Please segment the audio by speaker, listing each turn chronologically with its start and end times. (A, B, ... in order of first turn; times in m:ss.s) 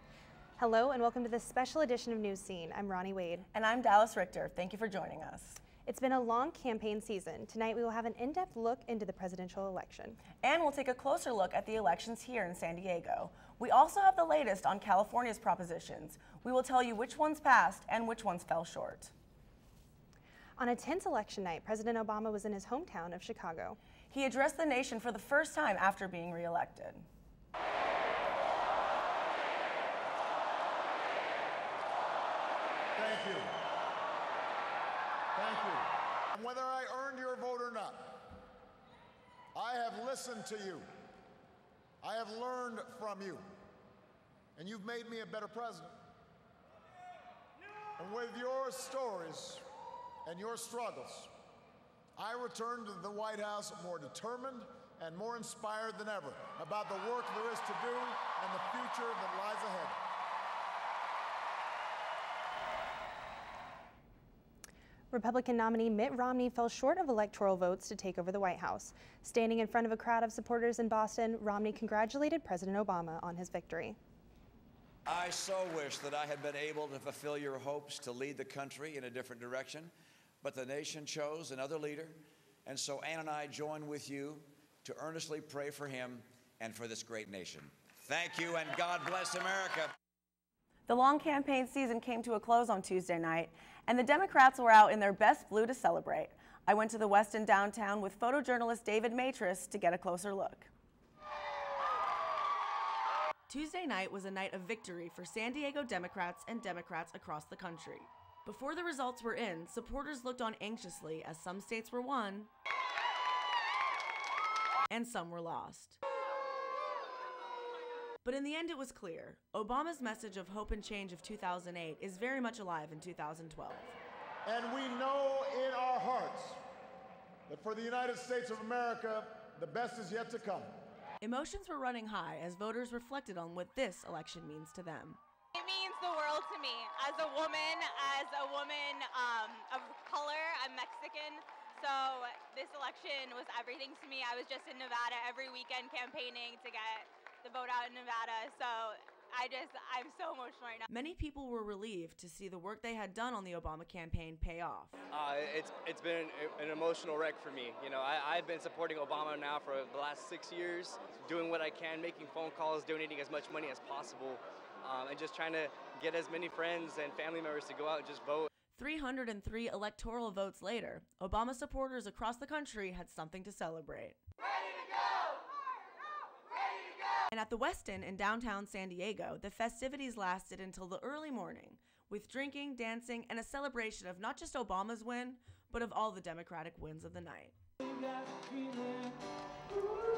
0:00.6-0:03.4 A
0:03.5-0:05.6 B
0:05.8-0:10.2 A
0:10.4-0:19.1 B
0:20.6-0:23.8 A
0:24.1-0:27.0 B
0:32.9-0:33.5 C
0:35.3-0:38.4 C
0:39.5-0:40.9 C
0:42.0-0:43.4 C
0:44.6-0:45.9 C
0:48.0-0:49.6 C
0:50.2-0:51.3 C
0:52.2-1:00.0 C
1:05.1-1:14.0 A
1:15.0-1:29.9 D
1:30.9-1:40.7 B
1:43.5-1:52.5 B
1:54.9-1:56.0 B
1:58.2-2:03.9 B
2:04.4-2:06.6 C
2:07.5-2:10.7 C
2:11.2-2:15.2 B
2:15.6-2:30.8 E
2:30.9-2:35.0 B
2:35.1-2:48.4 F
2:48.7-2:54.2 B
2:57.3-3:07.5 B